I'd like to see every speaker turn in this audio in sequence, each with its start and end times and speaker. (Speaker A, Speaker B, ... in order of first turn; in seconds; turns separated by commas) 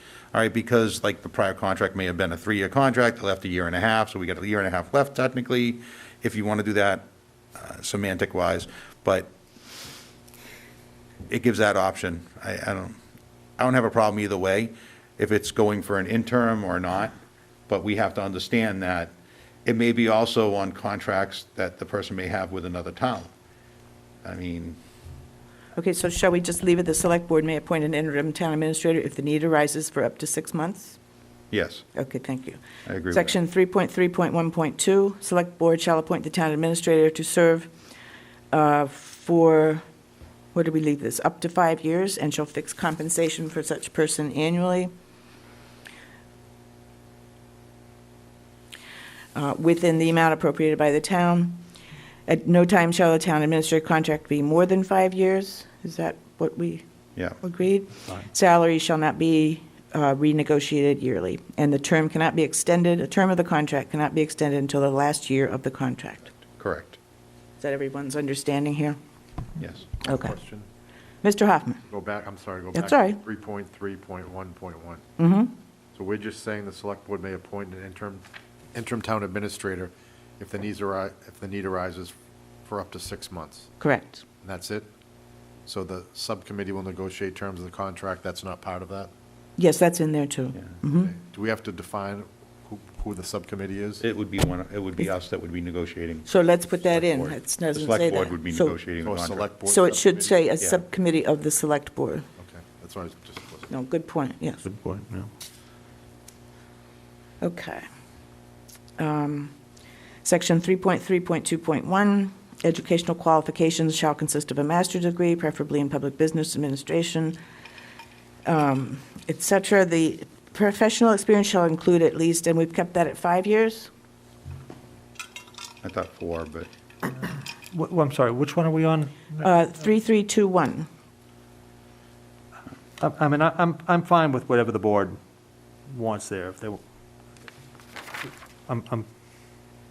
Speaker A: 0.3-7.0, Speaker A: 7.6-9.3, Speaker A: 11.3-12.9, Speaker A: 13.6-17.1, Speaker A: 17.7-19.1, Speaker A: 19.7-23.3, Speaker A: 24.2-24.8, Speaker B: 25.8-31.0, Speaker A: 31.5-31.9, Speaker B: 31.9-32.6, Speaker A: 32.9-33.3, Speaker B: 33.1-37.7, Speaker B: 38.5-39.8, Speaker B: 40.5-44.9, Speaker B: 49.4-51.6, Speaker B: 52.3-56.8, Speaker B: 57.4-66.3, Speaker A: 66.6-67.0, Speaker B: 67.6-69.0, Speaker A: 69.6-69.9, Speaker C: 69.8-70.7, Speaker B: 70.1-70.3, Speaker B: 71.2-71.8, Speaker C: 71.9-75.0, Speaker B: 72.7-73.2, Speaker B: 75.2-75.5, Speaker C: 76.0-78.2, Speaker C: 78.7-82.1, Speaker C: 82.7-83.7, Speaker B: 83.8-84.2, Speaker C: 84.4-84.9, Speaker C: 85.7-89.1, Speaker B: 89.6-91.1, Speaker C: 90.9-94.0, Speaker A: 94.0-96.3, Speaker B: 96.3-98.8, Speaker A: 96.9-99.5, Speaker C: 99.0-100.5, Speaker B: 99.7-102.3, Speaker C: 102.4-103.7, Speaker B: 103.7-104.6, Speaker D: 104.7-105.3, Speaker B: 107.4-107.8, Speaker B: 109.0-109.5, Speaker B: 110.2-117.4, Speaker B: 118.5-123.9, Speaker A: 125.8-126.7, Speaker D: 127.7-129.5, Speaker B: 129.4-130.9, Speaker D: 133.0-135.2, Speaker D: 135.9-136.8, Speaker D: 138.7-139.1